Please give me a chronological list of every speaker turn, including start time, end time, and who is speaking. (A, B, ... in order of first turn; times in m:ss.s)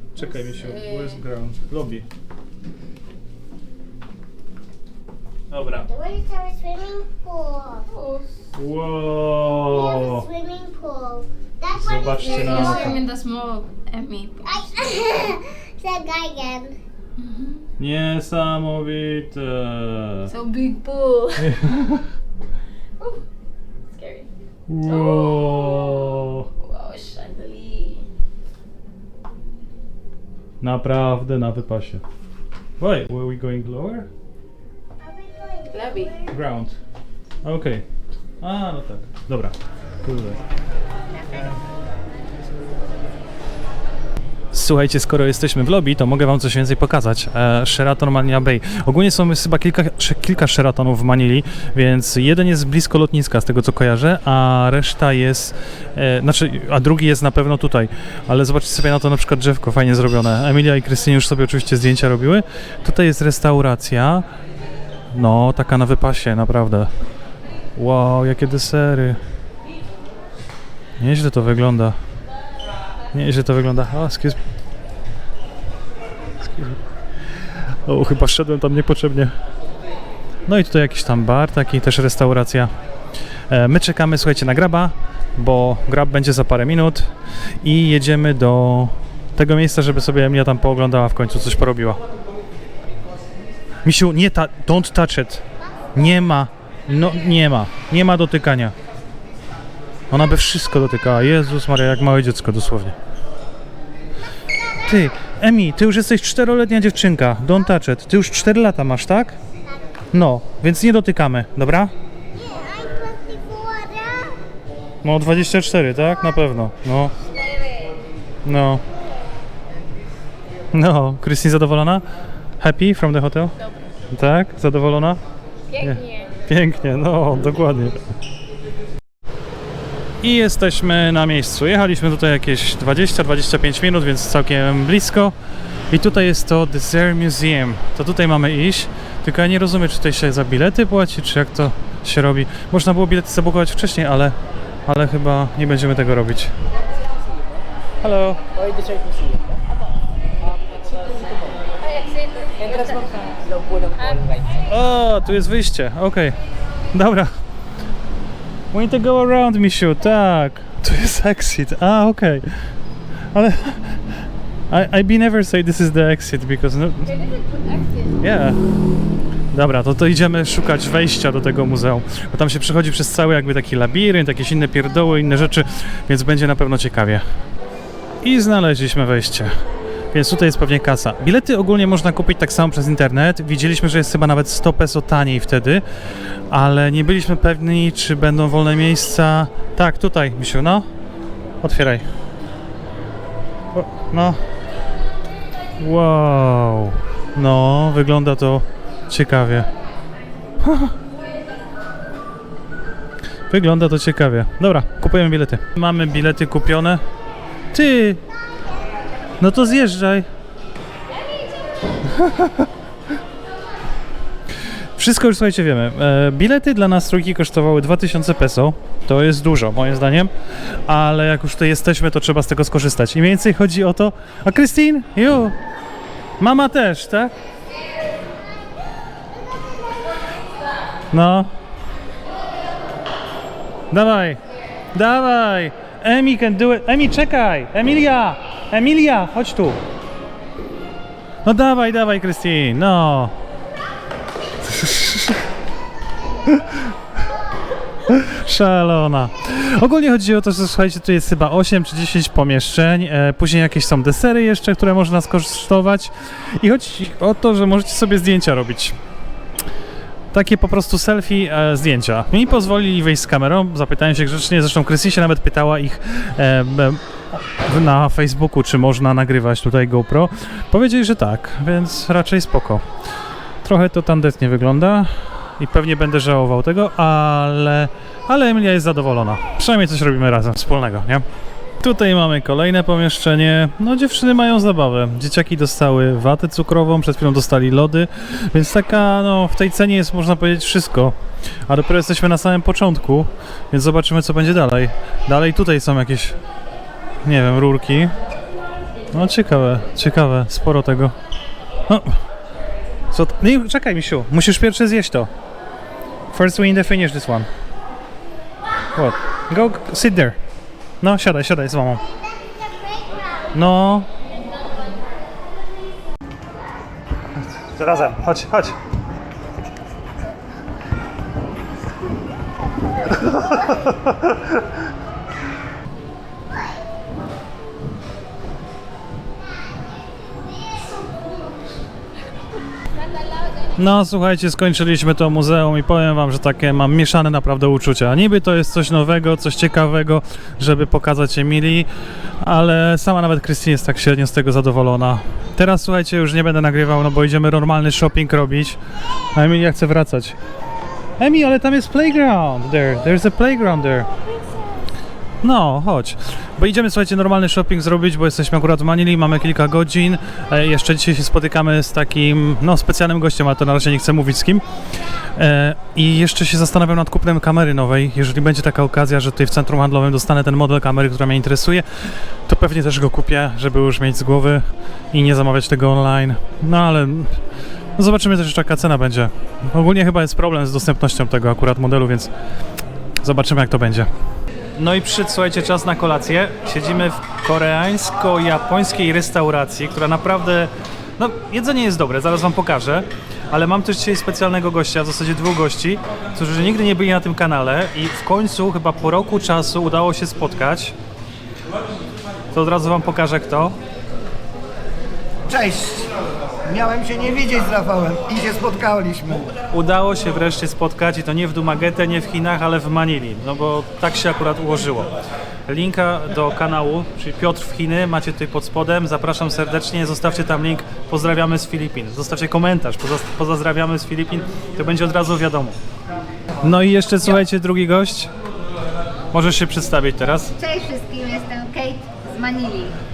0:00.2-0:02.1 A
0:00.4-0:01.2 B
0:05.5-0:05.9 A
0:05.8-0:07.9 C
0:07.9-0:08.3 B
0:08.5-0:10.2 A
0:09.7-0:13.0 C
0:11.7-0:13.0 A
0:12.2-0:14.7 B
0:14.4-0:16.8 C
0:17.2-0:17.6 B
0:17.8-0:20.3 A
0:20.2-0:21.6 B
0:21.4-0:22.0 A
0:23.9-0:24.3 B
0:24.7-0:26.5 A
0:24.8-0:28.0 B
0:30.6-0:32.0 A
0:32.8-0:34.1 A
0:35.1-0:36.1 C
0:35.7-0:36.2 B
0:36.3-0:36.8 A
0:37.4-0:37.8 A
0:38.4-0:40.4 A
0:44.5-1:04.2 A
1:05.1-1:06.9 A
1:07.8-1:09.2 A
1:11.0-1:12.0 A
1:13.1-1:14.4 A
1:16.4-1:16.8 A
1:17.4-1:19.3 A
1:20.5-1:22.7 A
1:23.5-1:27.1 A
1:27.6-1:32.0 A
1:33.8-1:35.4 A
1:35.9-1:38.7 A
1:40.1-1:43.0 A
1:44.8-1:49.4 A
1:50.1-1:51.9 A
1:52.3-1:54.4 C
1:55.0-1:57.1 A
1:58.4-1:58.8 A
2:00.7-2:02.0 A
2:02.6-2:03.5 A
2:04.1-2:05.2 A
2:05.7-2:06.3 B
2:05.8-2:08.0 A
2:10.2-2:15.3 A
2:15.9-2:24.4 A
2:24.9-2:26.5 A
2:27.2-2:27.6 D
2:28.0-2:28.4 A
2:28.5-2:29.6 D
2:30.4-2:31.7 D
2:31.8-2:33.2 B
2:32.6-2:34.6 D
2:34.0-2:34.2 B
2:34.6-2:36.4 A
2:36.9-2:37.3 A
2:38.7-2:42.7 A
2:43.3-2:47.1 A
2:47.0-2:48.2 B
2:48.2-2:48.6 A
2:49.5-2:57.2 A
2:58.2-2:59.5 A
3:00.1-3:10.9 A
3:11.6-3:12.0 A
3:13.7-3:14.4 A
3:15.8-3:19.7 A
3:20.6-3:20.9 A
3:23.5-3:27.0 A
3:27.7-3:28.2 A
3:29.4-3:30.3 A
3:32.0-3:32.7 A
3:35.0-3:40.3 A
3:40.8-3:45.6 A
3:46.4-3:47.3 A
3:51.1-3:51.5 A
3:53.9-3:54.4 A
3:54.9-3:59.8 A
4:01.4-4:03.3 A
4:04.6-4:05.4 A
4:06.4-4:06.9 A
4:08.1-4:19.0 A
4:20.3-4:32.8 A
4:33.6-4:41.2 A
4:41.8-4:51.2 A
4:51.7-4:56.4 A
4:57.2-4:58.1 A
4:59.1-5:01.1 A
5:01.9-5:02.2 A
5:03.1-5:05.3 A
5:06.3-5:07.5 A
5:08.9-5:10.4 A
5:11.0-5:12.0 A
5:12.0-5:13.5 C
5:13.5-5:14.1 A
5:17.5-5:18.8 A
5:23.1-5:24.5 A
5:30.7-5:31.3 C
5:33.8-5:48.8 A
5:49.3-5:50.4 A
5:51.2-5:54.1 A
5:55.4-6:04.6 A
6:05.2-6:17.4 A
6:18.0-6:22.3 A
6:23.2-6:24.1 A
6:24.7-6:40.9 A
6:42.5-6:43.8 A
6:45.5-6:49.5 D
6:49.7-6:55.1 A
6:55.7-7:05.8 A
7:06.6-7:08.3 A
7:09.3-7:10.5 A